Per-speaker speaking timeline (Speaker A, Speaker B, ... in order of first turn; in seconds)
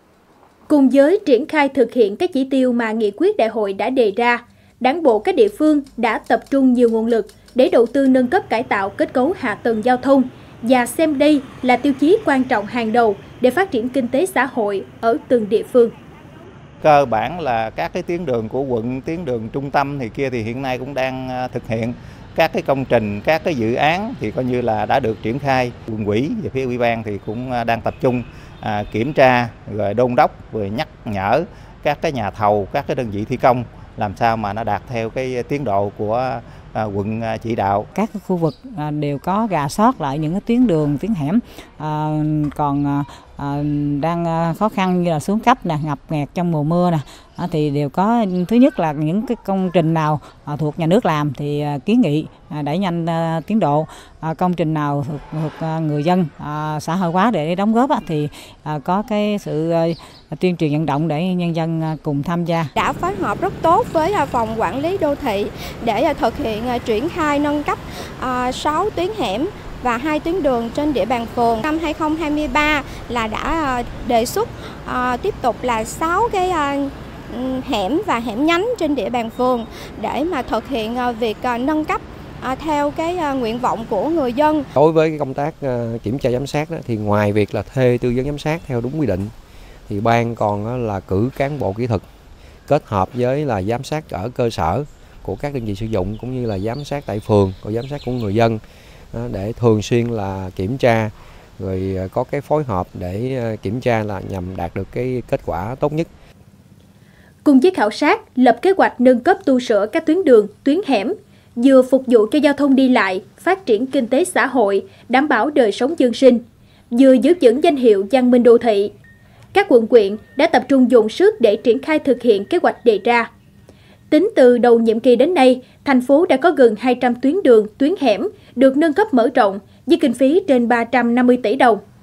Speaker A: 0.7-15.9, 107.4-118.9, 119.5-123.3, 124.1-131.8
Speaker B: 16.8-37.9
Speaker C: 38.0-62.7
Speaker D: 62.8-84.7
Speaker E: 84.8-89.3, 89.9-92.0, 92.7-98.6, 99.1-106.1